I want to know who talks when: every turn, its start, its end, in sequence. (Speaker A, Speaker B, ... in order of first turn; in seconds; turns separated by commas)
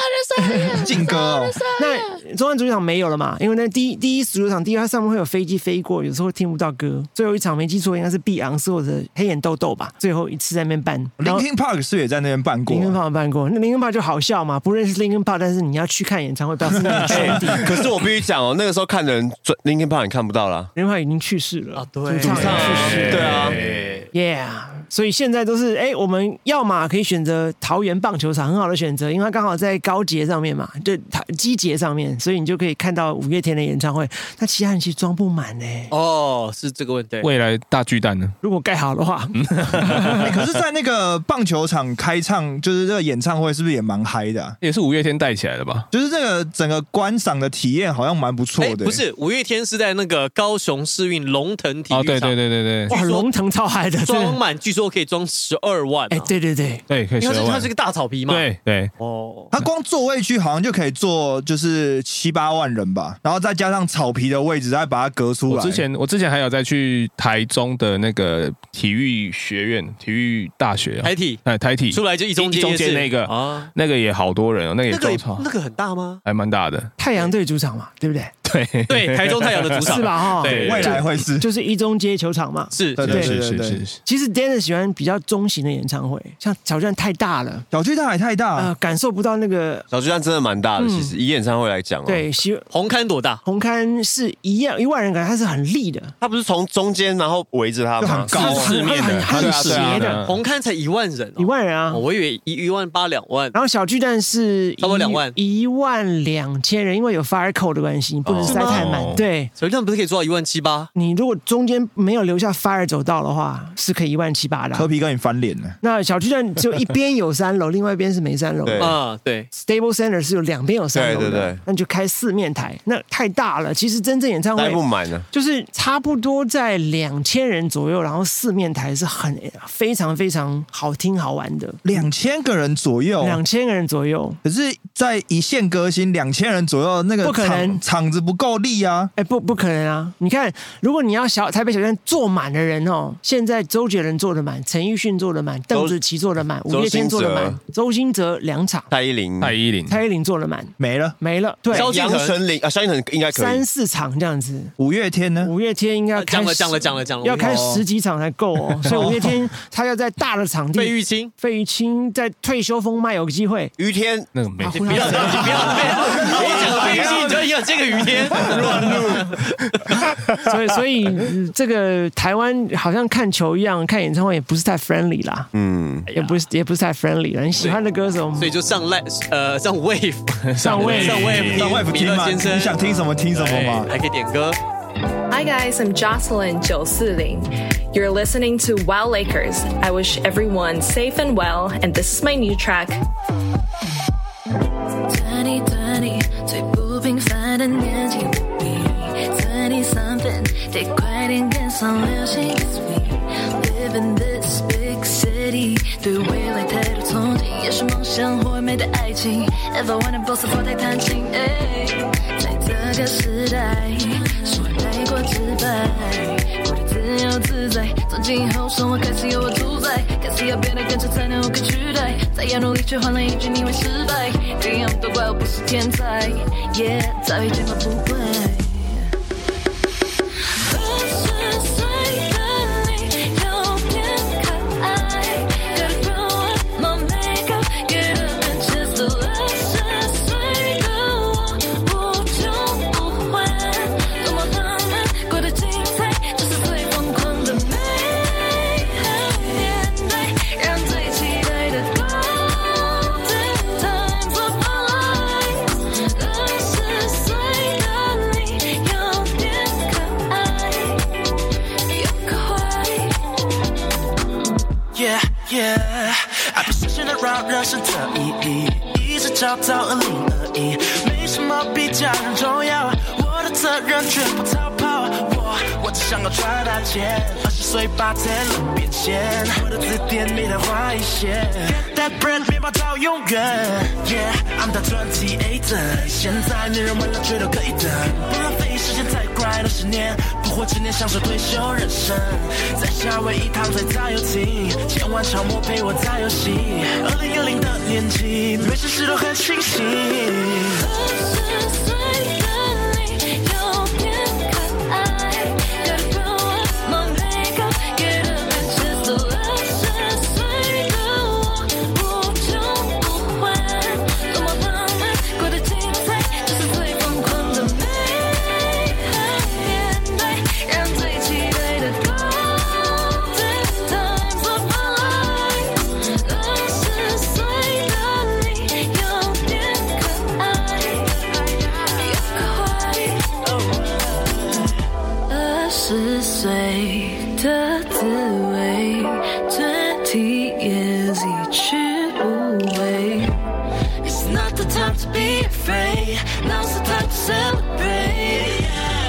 Speaker A: 0.4-1.0, Speaker B: 0.7-1.6, Speaker A: 1.7-11.4, Speaker B: 11.2-13.0, Speaker A: 12.7-17.8, Speaker C: 17.0-20.7, Speaker A: 20.8-23.5, Speaker D: 21.8-24.1, Speaker C: 22.2-23.6, Speaker E: 22.4-24.1, Speaker A: 24.1-35.9, Speaker D: 35.9-37.3, Speaker E: 37.2-38.3, Speaker A: 38.4-40.3, Speaker E: 39.4-40.2, Speaker B: 40.1-44.6, Speaker E: 44.6-45.9, Speaker B: 45.9-49.0, Speaker D: 48.6-53.3, Speaker E: 51.9-52.9, Speaker A: 52.9-54.4, Speaker D: 54.0-56.3, Speaker A: 56.1-56.8, Speaker E: 56.9-57.7, Speaker D: 57.2-59.5, Speaker E: 58.3-58.9, Speaker B: 59.5-65.8, Speaker E: 65.5-75.5, Speaker D: 71.0-73.7, Speaker D: 74.9-76.2, Speaker E: 76.2-76.9, Speaker A: 77.0-78.3, Speaker E: 78.4-81.0, Speaker D: 78.9-81.0, Speaker A: 79.8-83.3, Speaker B: 80.5-81.5, Speaker D: 82.7-83.1, Speaker B: 83.0-83.8, Speaker E: 83.0-84.0, Speaker A: 84.0-87.6, Speaker B: 87.7-88.7, Speaker A: 88.5-89.8, Speaker C: 89.9-92.3, Speaker A: 90.8-91.1, Speaker A: 92.0-92.7, Speaker D: 92.7-93.4, Speaker A: 93.4-96.1, Speaker C: 96.2-100.0, Speaker B: 98.0-98.8, Speaker A: 98.3-100.2, Speaker E: 98.4-100.4, Speaker D: 100.3-103.5, Speaker A: 101.4-102.0, Speaker A: 103.5-109.5, Speaker D: 104.8-105.3, Speaker C: 108.2-108.7, Speaker D: 108.5-108.8, Speaker E: 108.5-109.2, Speaker D: 109.5-110.9, Speaker A: 110.9-114.9, Speaker B: 114.7-115.8, Speaker A: 115.8-132.1, Speaker C: 118.6-119.0, Speaker D: 118.8-119.5, Speaker C: 120.9-121.6, Speaker C: 124.5-125.2, Speaker B: 131.8-133.4, Speaker A: 133.2-134.4, Speaker B: 134.4-139.1, Speaker A: 137.2-137.8, Speaker A: 139.2-148.9, Speaker C: 145.7-146.0, Speaker C: 146.7-147.6, Speaker C: 148.9-149.6, Speaker E: 149.4-150.0, Speaker A: 149.9-152.1, Speaker B: 150.8-151.2, Speaker D: 151.7-152.4, Speaker C: 151.7-153.6, Speaker A: 153.3-154.7, Speaker B: 154.8-155.5, Speaker A: 155.4-163.7, Speaker D: 156.1-157.6, Speaker B: 157.3-157.8, Speaker B: 158.9-159.4, Speaker D: 160.7-161.3, Speaker C: 163.8-164.3, Speaker E: 164.3-165.2, Speaker A: 164.6-165.8, Speaker D: 164.7-169.4, Speaker C: 164.8-169.5, Speaker B: 166.1-167.3, Speaker A: 170.4-175.5, Speaker C: 175.5-176.1, Speaker D: 176.1-176.3, Speaker A: 176.1-178.5, Speaker D: 178.3-184.6, Speaker E: 180.5-181.7, Speaker A: 180.6-181.6, Speaker B: 181.5-183.9, Speaker F: 185.3-193.0, Speaker G: 195.1-229.1, Speaker G: 230.6-261.2, Speaker G: 261.9-263.2, Speaker H: 264.9-300.8, Speaker G: 300.8-331.3, Speaker G: 331.9-333.4, Speaker H: 333.5-334.4, Speaker G: 335.3-343.4, Speaker G: 344.0-348.6, Speaker H: 344.3-345.2